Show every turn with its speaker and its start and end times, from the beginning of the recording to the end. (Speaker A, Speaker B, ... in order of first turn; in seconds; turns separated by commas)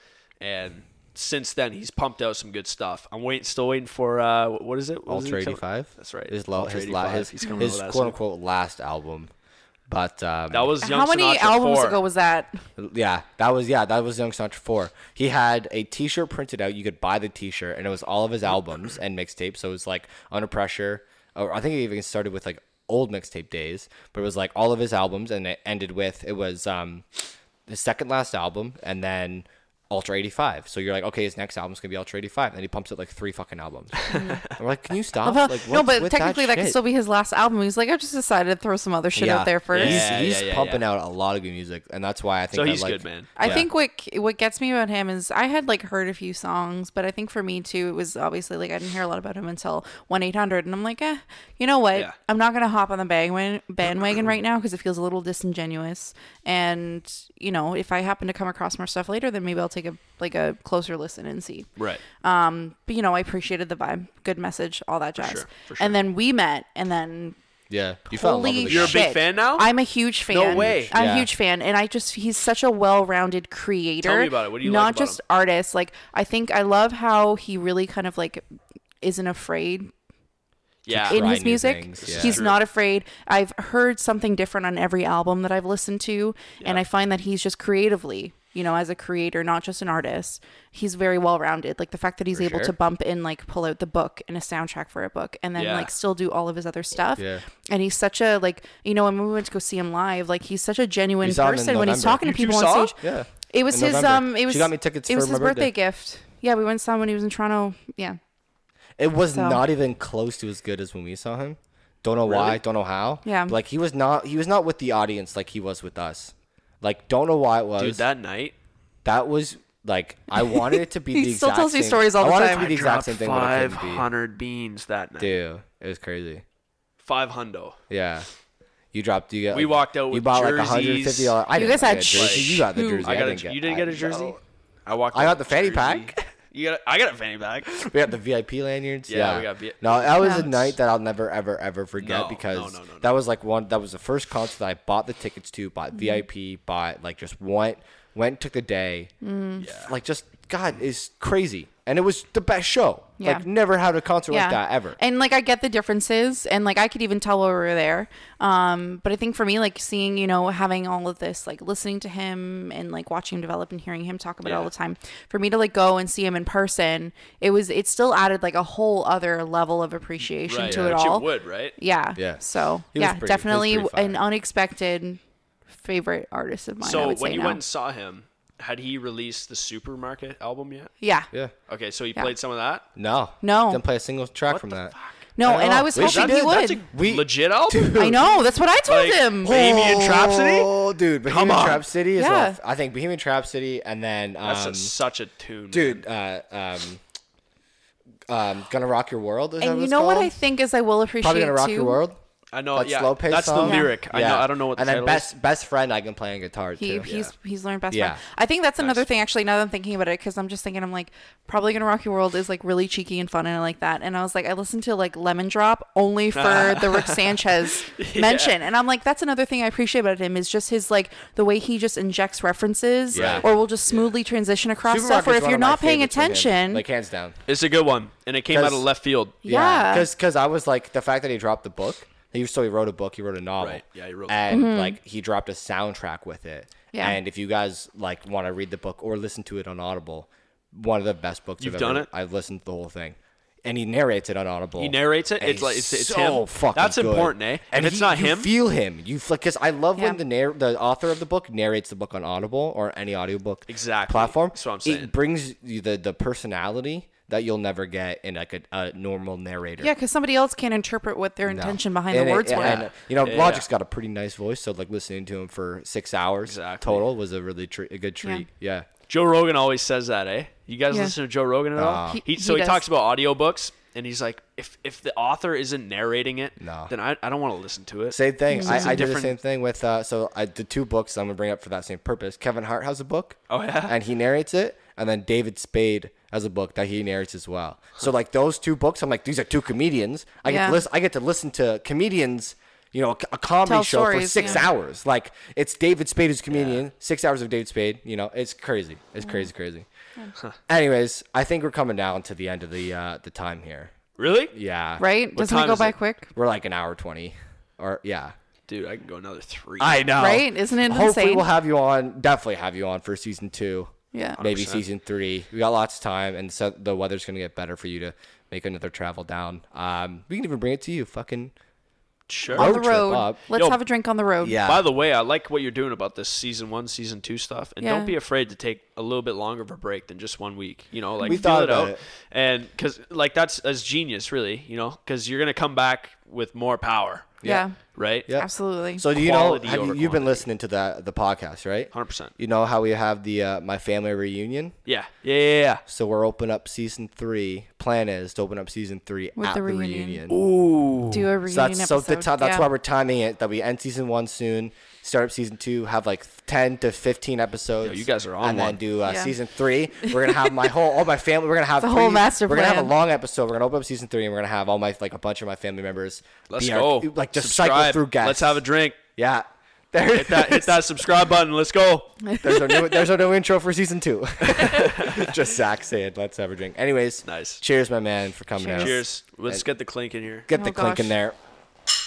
Speaker A: 0.4-8.2, Speaker B: 5.1-9.3, Speaker C: 7.4-7.7, Speaker B: 9.9-10.7, Speaker A: 10.5-12.0, Speaker C: 10.8-12.6, Speaker B: 12.8-27.1, Speaker B: 27.7-36.8, Speaker A: 34.0-34.5, Speaker C: 34.1-34.4, Speaker C: 35.2-40.1, Speaker B: 39.1-43.6, Speaker A: 39.7-40.8, Speaker A: 42.5-43.6, Speaker C: 43.4-67.4, Speaker A: 61.8-62.0, Speaker A: 65.2-66.0, Speaker B: 67.7-69.0, Speaker C: 68.1-78.4, Speaker A: 68.7-69.7, Speaker A: 70.3-70.9, Speaker B: 70.5-71.3, Speaker A: 74.0-75.2, Speaker C: 79.0-79.9, Speaker A: 80.8-81.2, Speaker B: 80.9-82.4, Speaker C: 81.1-108.2, Speaker A: 82.0-82.6, Speaker B: 92.3-92.7, Speaker A: 95.5-95.9, Speaker B: 97.2-97.4, Speaker B: 101.2-102.2, Speaker A: 102.2-102.9, Speaker B: 103.0-105.7, Speaker B: 109.0-118.0, Speaker C: 109.3-109.6, Speaker A: 112.2-112.6, Speaker C: 113.2-113.5, Speaker A: 117.8-118.5, Speaker B: 119.0-124.1, Speaker C: 120.4-122.8, Speaker A: 122.5-125.3, Speaker B: 125.2-126.4, Speaker A: 127.0-127.8, Speaker B: 127.9-128.3, Speaker B: 128.9-134.4, Speaker A: 129.5-137.8, Speaker C: 131.5-133.3, Speaker B: 135.1-136.2, Speaker B: 137.7-155.0, Speaker A: 139.1-140.7, Speaker C: 140.2-140.4, Speaker A: 142.0-143.1, Speaker C: 145.9-146.2, Speaker C: 149.2-149.7, Speaker A: 149.6-149.9, Speaker C: 153.2-153.4, Speaker C: 154.3-175.2, Speaker A: 164.4-164.7, Speaker A: 170.5-171.7, Speaker B: 172.2-172.4, Speaker B: 172.9-174.2, Speaker C: 175.7-177.6, Speaker A: 176.8-180.9, Speaker C: 181.0-181.3, Speaker A: 181.7-182.8, Speaker B: 182.9-188.2, Speaker C: 183.4-183.8, Speaker A: 184.4-188.2, Speaker C: 185.3-186.8, Speaker C: 187.9-189.6, Speaker A: 188.8-190.7, Speaker B: 189.4-194.9, Speaker A: 191.3-191.8, Speaker C: 192.2-192.6, Speaker A: 194.4-196.0, Speaker B: 195.7-197.0, Speaker B: 198.3-200.3, Speaker C: 199.6-202.0, Speaker B: 201.2-202.2, Speaker A: 202.5-205.3, Speaker B: 202.7-207.1, Speaker C: 203.5-204.0, Speaker C: 206.8-226.8, Speaker A: 207.0-207.3, Speaker B: 207.9-208.2, Speaker A: 208.8-209.1, Speaker A: 216.3-217.3, Speaker A: 217.9-218.5, Speaker B: 223.1-223.5, Speaker A: 223.1-224.1, Speaker B: 224.8-227.4, Speaker A: 227.5-229.4, Speaker B: 228.5-228.8, Speaker C: 229.4-230.1, Speaker B: 229.4-259.9, Speaker A: 233.6-234.4, Speaker C: 234.5-235.0, Speaker C: 236.9-237.2, Speaker A: 241.6-242.1, Speaker A: 244.8-248.5, Speaker A: 253.7-255.1, Speaker C: 259.8-262.9, Speaker B: 261.5-268.9, Speaker A: 262.5-263.6, Speaker A: 266.4-267.0, Speaker A: 269.1-279.4, Speaker C: 270.9-271.1, Speaker B: 271.8-272.2, Speaker C: 272.0-272.8, Speaker B: 276.6-276.9, Speaker B: 278.1-299.9, Speaker C: 278.5-279.1, Speaker A: 283.5-283.9, Speaker C: 290.5-290.8, Speaker C: 293.6-294.7, Speaker A: 296.5-296.8, Speaker C: 299.2-299.5, Speaker B: 300.7-303.9, Speaker A: 304.2-304.5, Speaker B: 304.5-305.0, Speaker C: 305.0-306.3, Speaker A: 305.3-305.9, Speaker B: 306.3-308.3, Speaker A: 308.7-310.1, Speaker B: 309.8-321.5, Speaker C: 310.2-311.4, Speaker C: 314.1-314.4, Speaker A: 314.4-314.8, Speaker A: 322.3-322.7, Speaker B: 322.5-323.4, Speaker C: 322.5-324.6, Speaker B: 324.4-324.8, Speaker A: 324.6-337.4, Speaker C: 327.8-328.1, Speaker B: 331.2-332.0, Speaker C: 337.4-337.8, Speaker A: 337.9-338.3, Speaker B: 338.3-344.7, Speaker C: 338.3-339.0, Speaker A: 339.1-340.4, Speaker A: 341.9-342.3, Speaker A: 344.9-345.8, Speaker B: 345.9-350.4, Speaker C: 349.4-350.2, Speaker A: 350.3-351.3, Speaker C: 351.1-352.7, Speaker B: 351.5-368.6, Speaker A: 357.8-358.8, Speaker C: 359.0-359.3, Speaker C: 360.0-360.5, Speaker C: 361.8-362.9, Speaker A: 366.5-369.0, Speaker B: 369.1-370.9, Speaker A: 370.1-372.1, Speaker C: 372.2-373.1, Speaker B: 372.4-379.6, Speaker A: 374.6-375.3, Speaker A: 377.2-377.6, Speaker C: 378.6-379.0, Speaker A: 378.8-380.4, Speaker B: 380.5-381.3, Speaker C: 380.5-381.1